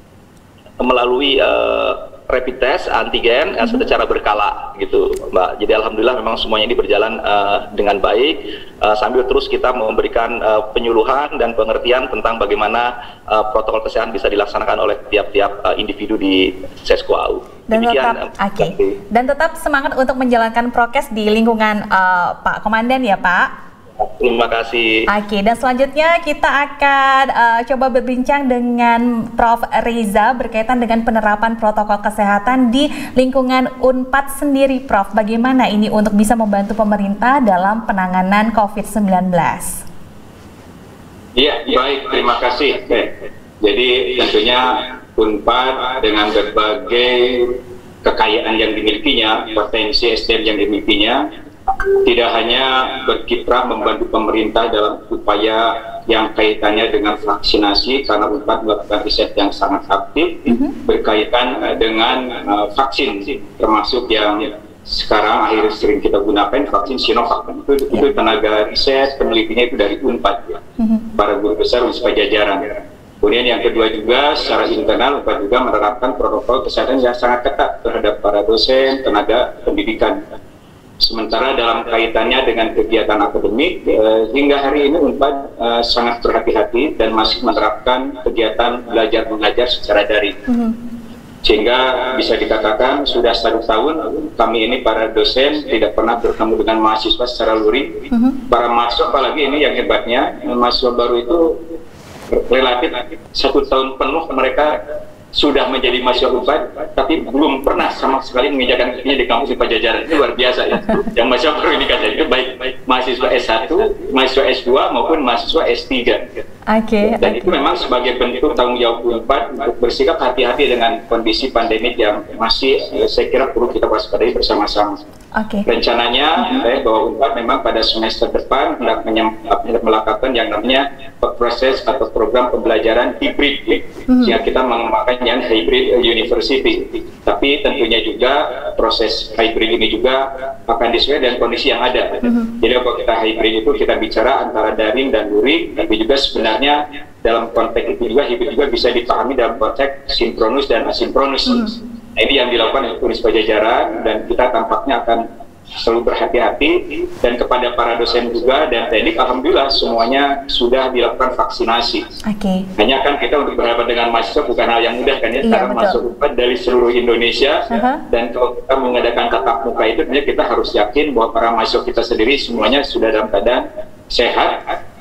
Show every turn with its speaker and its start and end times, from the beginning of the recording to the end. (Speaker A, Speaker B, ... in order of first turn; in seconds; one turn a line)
Speaker A: 0.8-19.0
Speaker B: 17.7-23.5
Speaker A: 24.0-25.0
Speaker B: 25.1-39.8
Speaker C: 41.3-51.3
Speaker C: 52.0-70.6
Speaker B: 60.5-60.8
Speaker B: 70.8-71.1
Speaker C: 71.2-80.2
Speaker C: 81.0-90.4
Speaker B: 90.5-90.8
Speaker C: 91.4-101.6
Speaker B: 98.1-98.4
Speaker C: 102.3-104.8
Speaker C: 105.3-116.4
Speaker B: 116.7-117.5
Speaker C: 117.2-125.0
Speaker B: 125.3-125.7
Speaker C: 125.6-162.1
Speaker B: 134.1-134.3
Speaker B: 162.2-162.7
Speaker C: 162.8-174.8
Speaker B: 165.4-166.0
Speaker B: 167.7-168.0